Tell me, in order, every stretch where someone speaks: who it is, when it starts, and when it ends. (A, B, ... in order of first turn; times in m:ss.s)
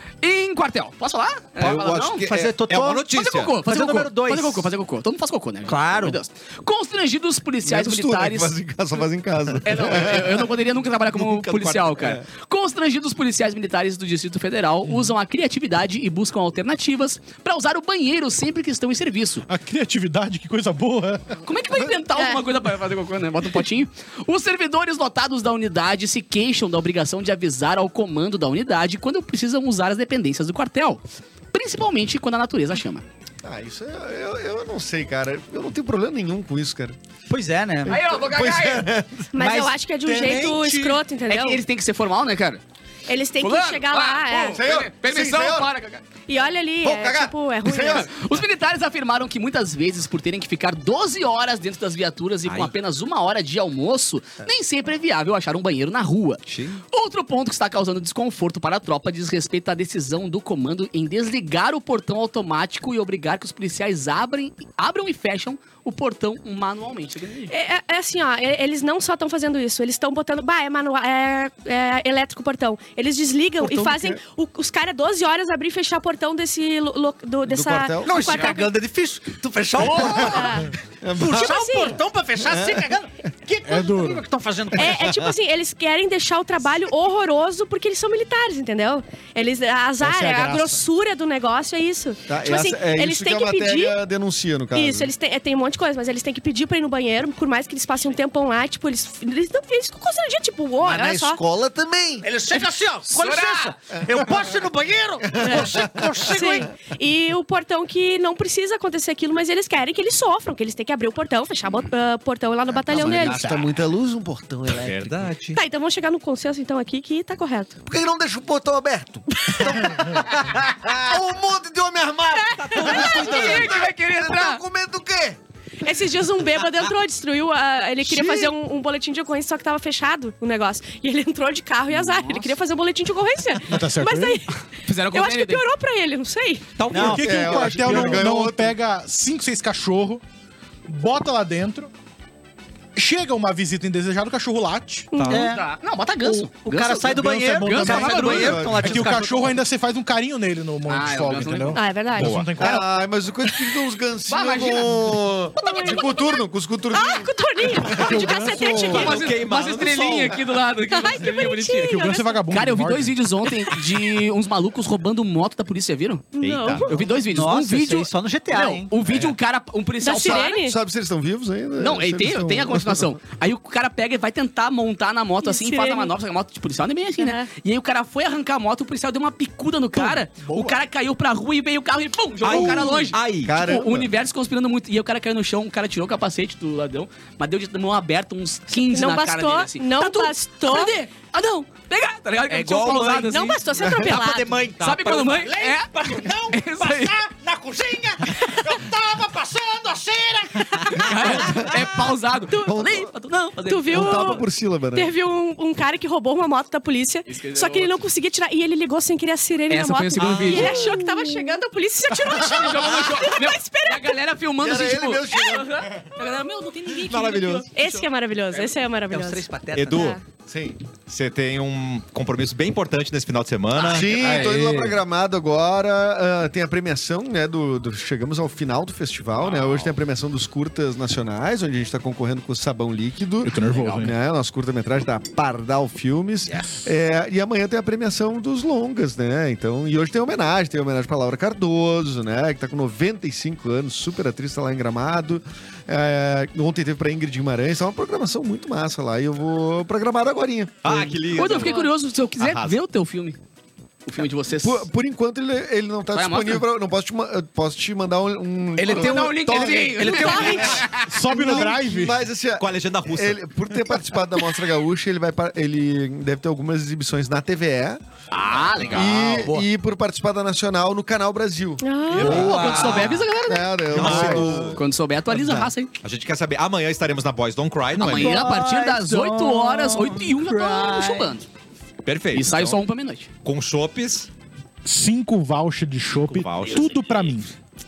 0:00.2-0:02.2 A
0:01.6-0:03.5 B
0:02.2-0:03.1 C
0:03.1-0:08.5 A
0:03.6-0:04.7 C
0:05.6-0:06.2 C
0:07.6-0:10.6 D
0:09.6-0:19.4 A
0:11.2-0:12.2 D
0:19.5-0:21.4 E
0:21.4-0:31.0 A
0:22.1-0:22.4 F
0:31.5-0:33.0 A
0:33.4-0:37.0 D
0:37.3-0:38.0 C
0:37.9-0:38.9 A
0:37.9-0:39.3 D
0:39.3-0:41.6 F
0:39.4-0:40.5 C
0:40.1-0:40.9 E
0:41.3-0:42.6 A
0:43.1-0:44.6 F
0:43.4-0:46.0 A
0:44.5-0:45.7 D
0:46.3-0:48.1 F
0:46.8-0:48.1 D
0:47.8-1:07.5 A
0:52.4-0:52.7 B
0:56.5-0:56.8 B
1:07.5-1:18.7 F
1:13.6-1:14.2 D
1:17.5-1:18.6 D
1:18.0-1:20.5 C
1:20.0-1:20.7 F
1:21.0-1:21.6 D
1:21.1-1:25.0 C
1:21.3-1:22.0 F
1:22.4-1:22.9 D
1:23.6-1:24.2 E
1:24.7-1:34.0 F
1:24.8-1:25.3 D
1:30.0-1:30.8 E
1:32.3-1:35.1 D
1:34.7-1:41.4 F
1:40.8-1:42.3 D
1:42.2-1:46.7 C
1:43.1-1:43.7 A
1:45.2-1:46.3 D
1:45.4-1:53.5 F
1:52.7-1:53.7 B
1:52.9-1:55.2 D
1:54.7-1:55.6 B
1:55.5-1:57.8 F
1:57.8-2:05.4 D
2:02.3-2:03.5 F
2:02.7-2:03.7 B
2:02.8-2:04.6 A
2:05.8-2:16.6 F
2:13.7-2:14.4 E
2:14.8-2:15.6 A
2:16.8-2:17.4 B
2:16.9-2:18.2 C
2:16.9-2:20.2 E
2:17.0-2:18.7 D
2:20.9-2:21.9 E
2:23.0-2:25.1 E
2:25.1-2:25.5 F
2:25.2-2:25.5 B
2:25.3-2:25.6 C
2:25.4-2:28.8 A
2:26.2-2:29.6 C
2:27.1-2:32.9 E
2:28.1-2:29.0 D
2:30.9-2:31.8 A
2:31.7-2:32.5 F
2:32.2-2:32.7 B
2:32.5-2:39.1 D
2:34.3-2:35.1 A
2:35.6-2:36.4 F
2:36.9-2:39.5 F
2:37.9-2:39.0 E
2:38.8-2:40.4 B
2:38.9-2:41.7 A
2:40.9-2:42.5 F
2:41.6-2:43.2 E
2:42.5-2:46.3 A
2:46.3-2:47.3 F
2:46.4-2:46.9 B
2:46.8-2:50.6 A
2:47.3-2:48.9 C
2:49.0-2:49.3 B
2:50.0-2:50.8 F
2:50.1-2:53.2 D
2:51.8-3:13.6 A
2:55.4-2:56.1 F
2:57.2-2:57.5 F
3:00.0-3:00.8 E
3:02.4-3:03.6 B
3:02.5-3:04.1 D
3:08.8-3:11.0 F
3:12.5-3:21.4 C
3:13.2-3:14.6 F
3:13.7-3:14.1 D
3:14.8-3:17.2 A
3:20.6-3:21.7 F
3:20.9-3:24.3 A
3:21.2-3:21.9 D
3:22.5-3:22.8 F
3:22.7-3:23.1 D
3:23.6-3:34.2 F
3:23.9-3:25.1 D
3:27.3-3:28.0 A
3:29.7-3:31.2 A
3:30.2-3:30.8 B
3:32.3-3:38.7 A
3:34.6-3:35.9 D
3:36.2-3:40.2 F
3:37.3-3:37.6 B
3:39.1-3:40.2 C
3:39.7-3:40.2 B
3:40.5-3:40.8 D
3:41.1-3:44.4 B
3:43.8-4:11.1 D
3:44.2-3:45.0 E
3:49.4-3:49.9 B
3:53.4-3:54.1 E
3:53.7-3:54.0 A
4:10.8-4:11.8 B
4:11.3-4:13.4 A
4:11.3-4:11.9 F
4:12.4-4:12.8 B
4:14.0-4:14.8 A
4:14.5-4:28.0 D
4:16.1-4:16.6 A
4:18.8-4:19.2 C
4:18.8-4:21.2 A
4:18.8-4:20.1 E
4:20.0-4:20.8 C
4:20.1-4:20.9 F
4:20.9-4:22.2 E
4:22.6-4:23.4 B
4:28.3-4:29.4 A
4:28.8-4:34.8 D
4:29.1-4:29.7 C
4:31.8-4:32.4 F
4:32.1-4:33.0 E
4:32.2-4:35.9 A
4:32.2-4:33.3 B
4:33.9-4:34.8 B
4:34.0-4:34.4 E
4:35.4-4:38.4 B
4:37.9-4:41.4 A
4:38.0-4:41.4 C
4:42.0-4:42.8 B
4:42.3-4:43.3 A
4:43.4-4:44.3 B
4:44.8-4:47.5 E
4:46.1-4:47.3 B